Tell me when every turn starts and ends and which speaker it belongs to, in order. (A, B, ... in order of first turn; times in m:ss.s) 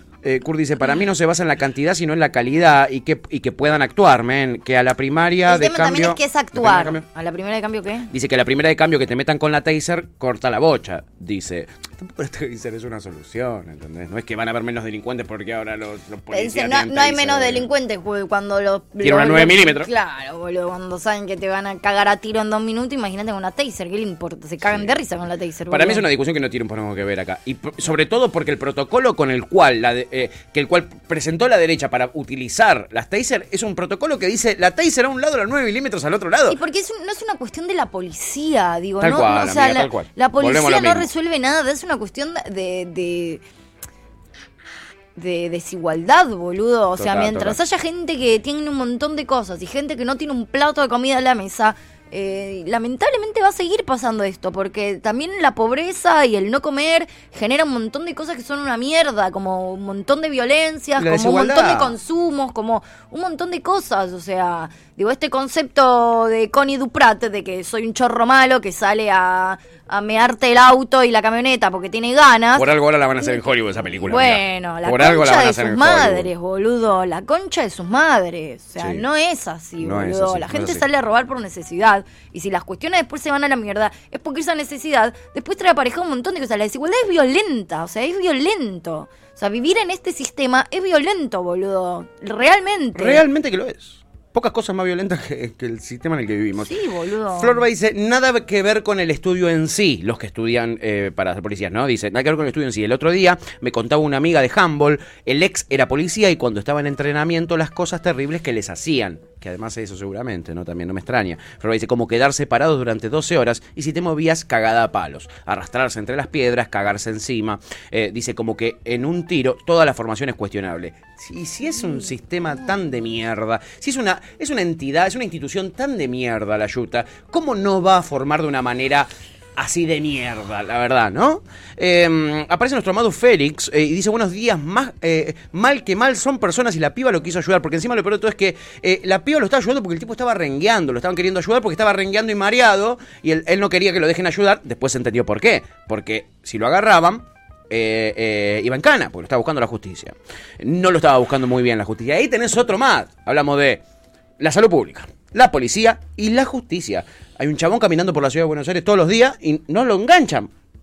0:00.2-0:07.0 A
0:05.5-0:08.1 B
0:08.1-0:17.6 A
0:16.3-0:26.0 B
0:19.0-0:19.9 A
0:25.7-0:36.6 A
0:36.5-0:43.4 B
0:39.0-0:41.1 A
0:45.2-1:12.6 B
0:47.0-0:47.6 A
1:01.0-1:01.9 A
1:12.5-1:16.3 A
1:13.2-1:13.5 B
1:14.0-1:33.2 B
1:18.8-1:19.0 A
1:19.8-1:20.8 A
1:32.9-1:36.7 A
1:36.6-1:37.6 B
1:37.3-2:33.8 A
2:34.4-2:40.5 A